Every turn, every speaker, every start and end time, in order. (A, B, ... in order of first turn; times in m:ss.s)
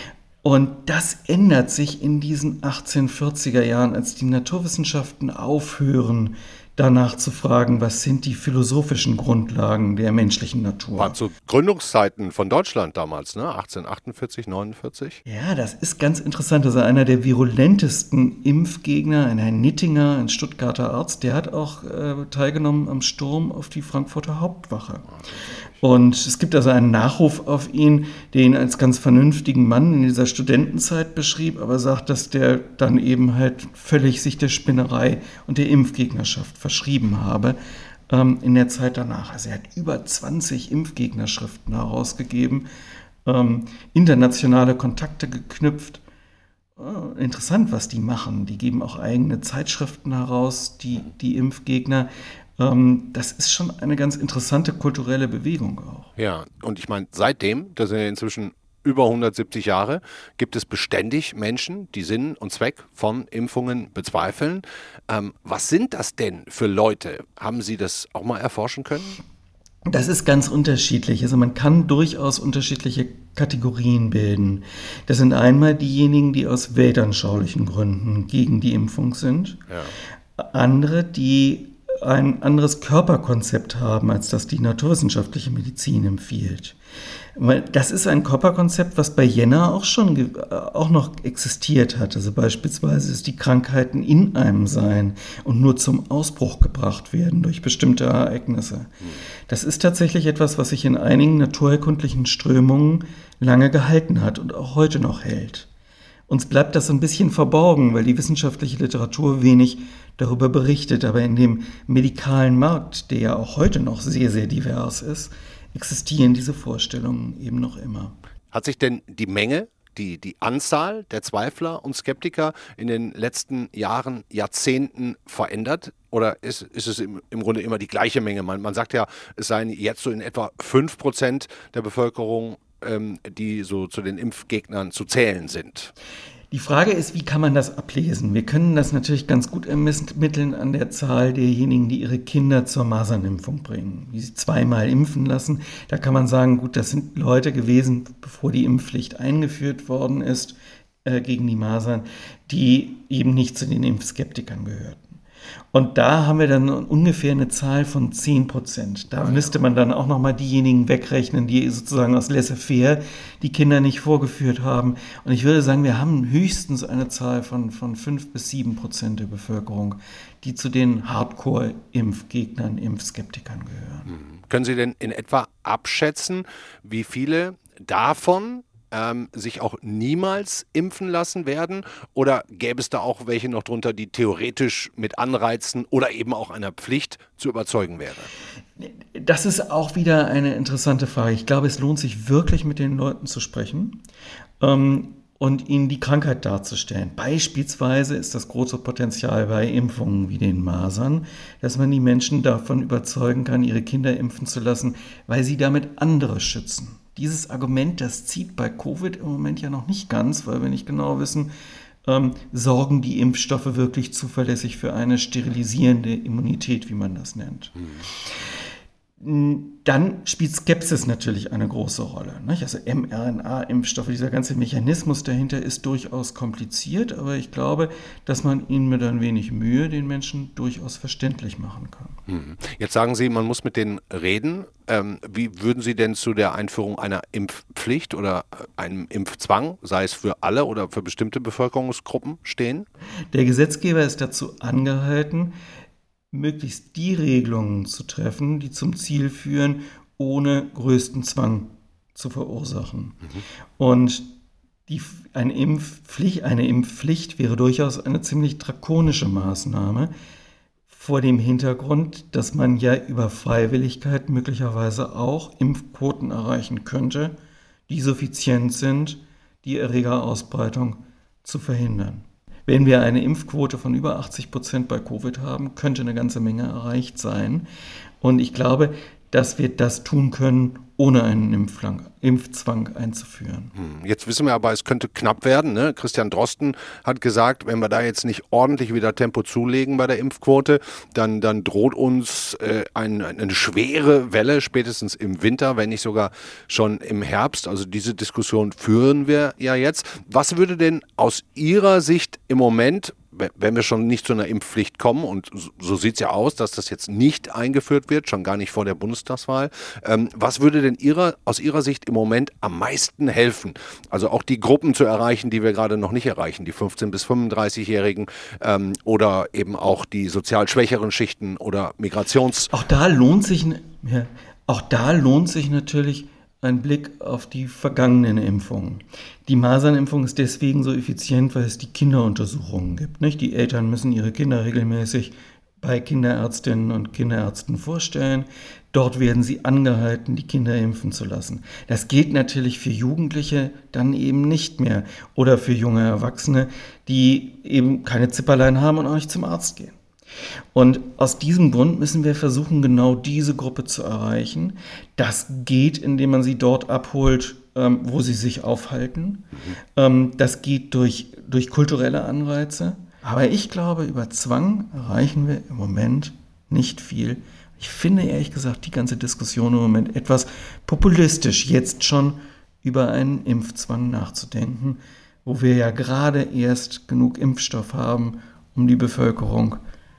0:00.4-0:11.2 A
0:10.9-0:15.2 B
0:15.2-0:25.1 A
0:25.8-0:37.6 A
0:38.1-0:42.7 A
0:43.2-0:46.0 A
0:46.8-0:56.1 A
0:56.2-1:09.2 B
1:09.8-1:19.6 A
1:19.7-1:19.9 B
1:20.4-1:26.8 A
1:27.4-1:39.0 A
1:39.5-1:45.7 A
1:46.3-1:58.2 A
1:58.5-2:15.9 B
2:16.5-2:35.2 A
2:35.7-2:54.1 A
2:54.1-3:08.3 B
3:08.8-3:14.0 A
3:14.6-3:31.5 A
3:32.0-3:38.3 A
3:39.2-3:52.2 A
3:52.3-4:02.8 B
4:03.3-4:05.5 A
4:06.3-4:13.2 A
4:13.8-4:14.3 A
4:14.9-4:20.1 A
4:20.9-4:27.4 A
4:27.9-4:37.7 A
4:38.2-4:43.7 A
4:43.7-5:22.7 B
5:22.7-5:50.0 A
5:50.7-6:19.8 A